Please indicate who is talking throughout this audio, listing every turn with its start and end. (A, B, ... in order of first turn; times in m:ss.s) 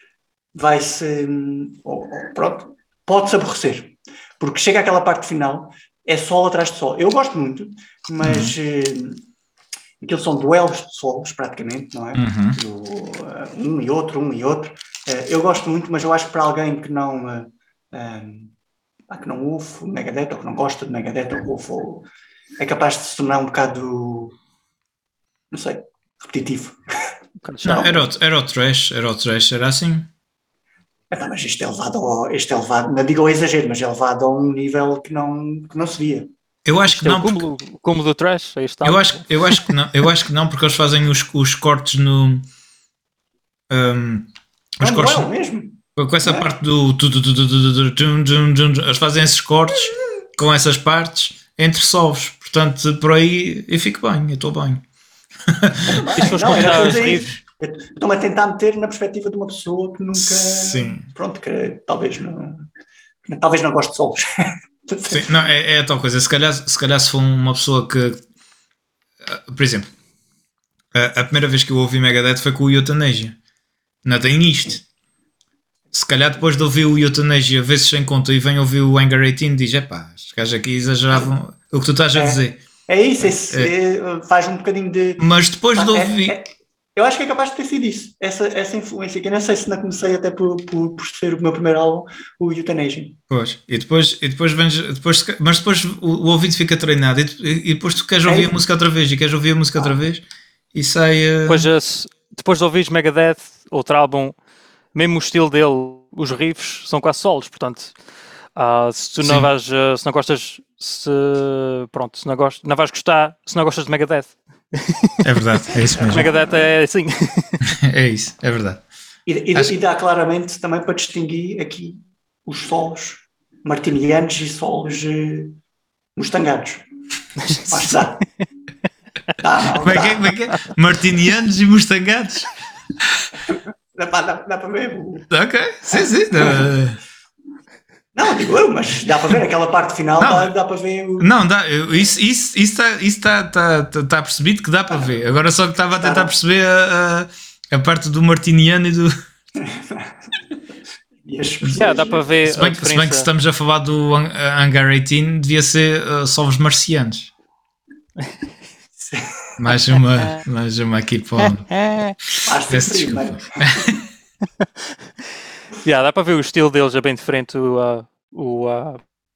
0:00.5-0:09.2 A
0:08.2-0:08.5 B
0:10.0-0:18.5 A
0:12.1-0:12.6 B
0:19.1-0:22.1 A
0:22.6-0:24.4 A
0:25.5-0:26.8 A
0:27.4-0:27.9 C
0:27.6-0:28.0 A
0:27.6-0:30.1 B
0:31.1-0:36.3 A
0:36.6-0:37.4 B
0:36.9-0:39.6 C
0:38.8-0:42.4 B
0:43.7-0:45.3 B
0:44.8-0:46.5 A
0:46.0-0:54.8 B
0:55.5-0:57.2 B
0:55.9-1:02.7 A
0:56.2-0:57.3 C
1:00.1-1:01.0 B
1:03.2-1:05.3 A
1:05.1-1:08.2 B
1:09.2-1:09.9 B
1:10.9-1:13.4 B
1:14.0-1:14.8 B
1:15.9-1:22.6 B
1:22.1-1:33.2 A
1:23.2-1:23.7 B
1:25.2-1:26.4 B
1:33.3-1:40.2 B
1:38.2-1:38.5 A
1:40.7-1:41.7 B
1:41.5-1:44.4 C
1:44.9-1:48.0 C
1:48.6-1:55.2 C
1:49.2-1:49.5 B
1:55.2-1:56.3 B
1:55.9-1:56.7 A
1:56.0-1:57.6 C
1:57.8-1:58.8 B
1:59.2-2:05.6 A
2:06.2-2:06.8 A
2:07.4-2:08.3 A
2:09.4-2:10.3 A
2:09.8-2:12.5 B
2:13.5-2:15.3 A
2:15.3-2:17.0 B
2:15.9-2:16.6 A
2:18.1-2:21.3 A
2:20.2-2:20.5 B
2:21.2-2:29.1 B
2:26.0-2:26.3 A
2:29.6-2:30.5 A
2:31.2-2:32.2 A
2:31.6-2:31.9 B
2:31.7-2:33.3 C
2:32.4-2:37.3 B
2:39.0-2:39.3 A
2:39.6-2:41.7 B
2:41.4-2:42.2 C
2:42.4-2:43.8 A
2:42.7-2:44.0 B
2:45.8-2:49.0 C